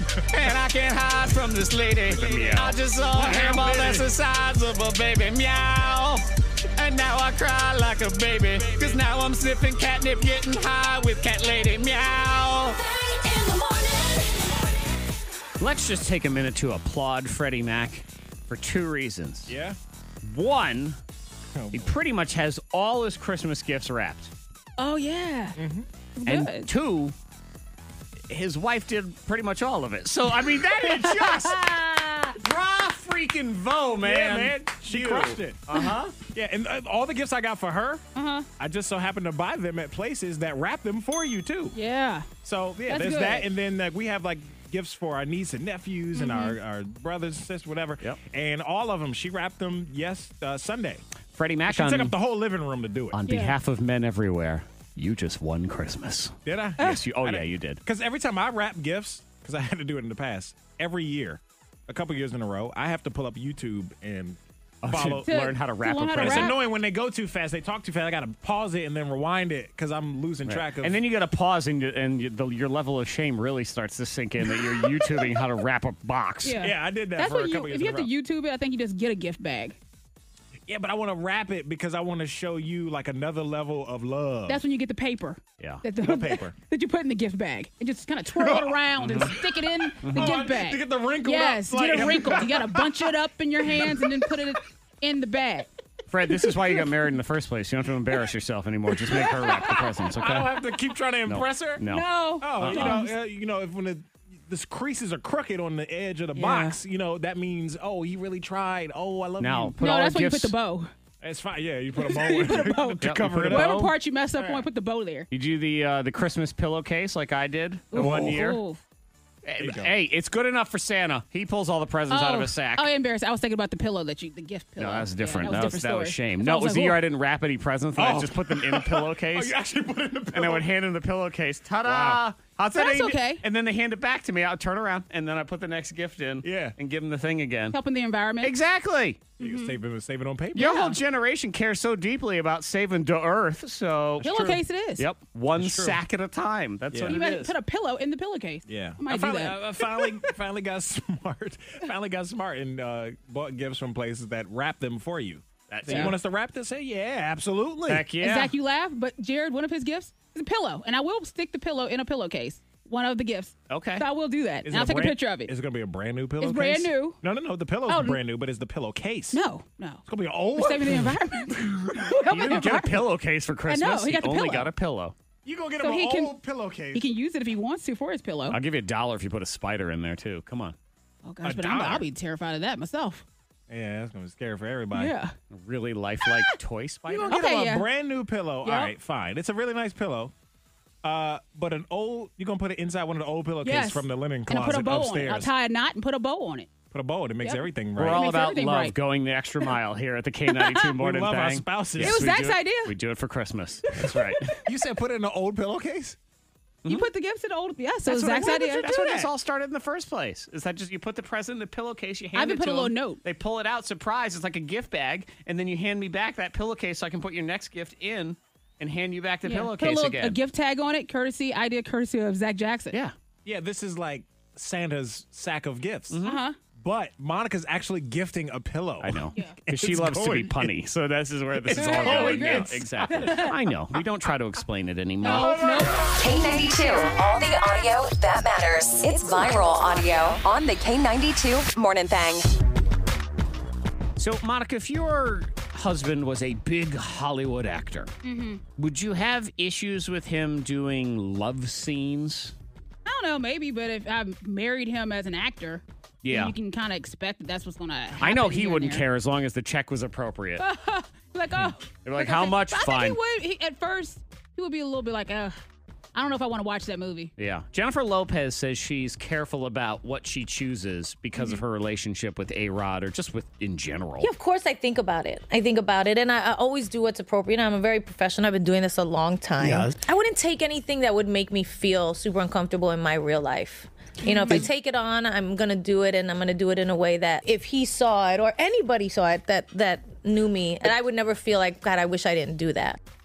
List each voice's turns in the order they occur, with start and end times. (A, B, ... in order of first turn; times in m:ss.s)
0:00.3-0:12.8 A
0:02.1-0:04.1 B
0:15.6-0:19.5 A
0:19.5-0:19.8 B
0:20.2-0:21.0 A
0:21.6-0:22.0 B
0:21.7-0:24.3 A
0:24.8-0:25.6 C
0:25.6-0:25.9 B
0:26.2-0:26.7 C
0:26.3-0:27.2 A
0:28.3-0:31.8 A
0:31.0-0:32.4 C
0:32.4-0:36.2 A
0:34.0-0:35.6 B
0:36.2-0:38.0 B
0:38.2-0:38.5 C
0:38.6-0:41.8 B
0:41.7-0:42.3 C
0:42.4-0:51.0 B
0:42.9-0:43.5 C
0:46.2-0:46.6 C
0:51.4-0:52.2 A
0:51.7-0:53.2 B
0:53.1-0:57.8 A
0:53.3-0:53.6 C
0:56.4-1:05.3 B
1:04.8-1:06.6 A
1:05.2-1:06.6 C
1:06.2-1:11.0 B
1:10.5-1:16.6 A
1:14.6-1:15.1 B
1:16.4-1:19.8 C
1:16.6-1:18.1 B
1:20.7-1:24.6 B
1:24.5-1:35.7 C
1:26.0-1:26.6 B
1:28.3-1:29.4 B
1:29.0-1:29.3 A
1:30.0-1:33.1 B
1:30.0-1:30.4 A
1:33.8-1:34.3 B
1:36.1-1:40.6 A
1:39.1-1:41.8 B
1:41.3-1:43.0 A
1:41.9-1:43.2 C
1:42.4-1:49.8 B
1:46.4-1:46.8 C
1:49.4-1:50.5 A
1:49.8-1:50.9 C
1:51.2-1:53.8 B
1:52.0-1:55.3 C
1:53.0-1:53.9 A
1:55.3-1:58.6 A
1:57.9-1:58.8 C
1:58.0-1:58.4 B
1:59.4-2:02.9 A
1:59.6-1:59.9 B
2:02.1-2:07.0 C
2:04.8-2:09.5 A
2:08.0-2:10.7 B
2:10.3-2:17.8 A
2:11.8-2:12.2 B
2:12.8-2:13.4 C
2:16.4-2:16.8 B
2:17.7-2:18.5 C
2:18.4-2:19.2 A
2:19.4-2:19.8 C
2:19.4-2:20.9 B
2:20.6-2:27.5 A
2:20.6-2:20.9 C
2:24.2-2:25.1 C
2:25.6-2:26.0 B
2:26.9-2:27.2 B
2:27.1-2:30.0 C
2:28.7-2:38.0 B
2:35.7-2:36.2 A
2:35.9-2:36.1 C
2:37.9-2:38.6 A
2:38.2-2:45.5 C
2:43.7-2:44.0 A
2:44.6-2:49.4 B
2:46.4-2:47.2 C
2:47.9-2:48.2 C
2:49.3-2:50.0 C
2:50.1-2:52.6 B
2:50.6-2:53.0 C
2:52.3-2:55.1 A
2:53.7-2:54.7 C
2:55.4-2:57.1 B
2:55.8-2:56.4 C
2:56.9-2:58.6 C
2:58.5-3:00.8 A
3:01.2-3:03.2 C
3:01.4-3:02.1 B
3:03.7-3:05.1 B
3:04.9-3:05.3 C
3:05.5-3:07.4 A
3:07.1-3:10.3 B
3:07.2-3:07.9 C
3:08.6-3:08.9 C
3:11.0-3:15.5 B
3:13.6-3:16.7 C
3:16.9-3:18.2 B
3:17.4-3:19.0 C
3:18.0-3:24.6 A
3:20.5-3:20.9 C
3:21.0-3:22.5 B
3:22.0-3:22.9 C
3:23.9-3:24.2 C
3:24.0-3:26.2 B
3:26.9-3:28.9 C
3:28.1-3:40.4 A
3:28.1-3:29.3 B
3:32.4-3:33.2 C
3:39.4-3:43.0 C
3:43.4-3:46.2 B
3:46.1-3:46.4 A
3:46.2-3:46.6 C
3:46.8-3:50.7 B
3:49.0-3:55.6 A
3:51.6-3:53.4 B
3:51.8-3:53.5 C
3:55.2-3:56.0 C
3:55.2-3:55.8 B
3:56.2-4:02.5 D
4:04.2-4:08.1 A
4:08.2-4:08.6 C
4:08.8-4:12.5 A
4:13.0-4:19.0 C
4:16.2-4:16.6 A
4:18.2-4:20.6 A
4:20.6-4:25.6 C
4:22.0-4:23.2 A
4:26.2-4:27.3 C
4:27.4-4:34.3 A
4:34.2-4:53.0 E
4:39.6-4:39.9 B
4:44.2-4:44.7 C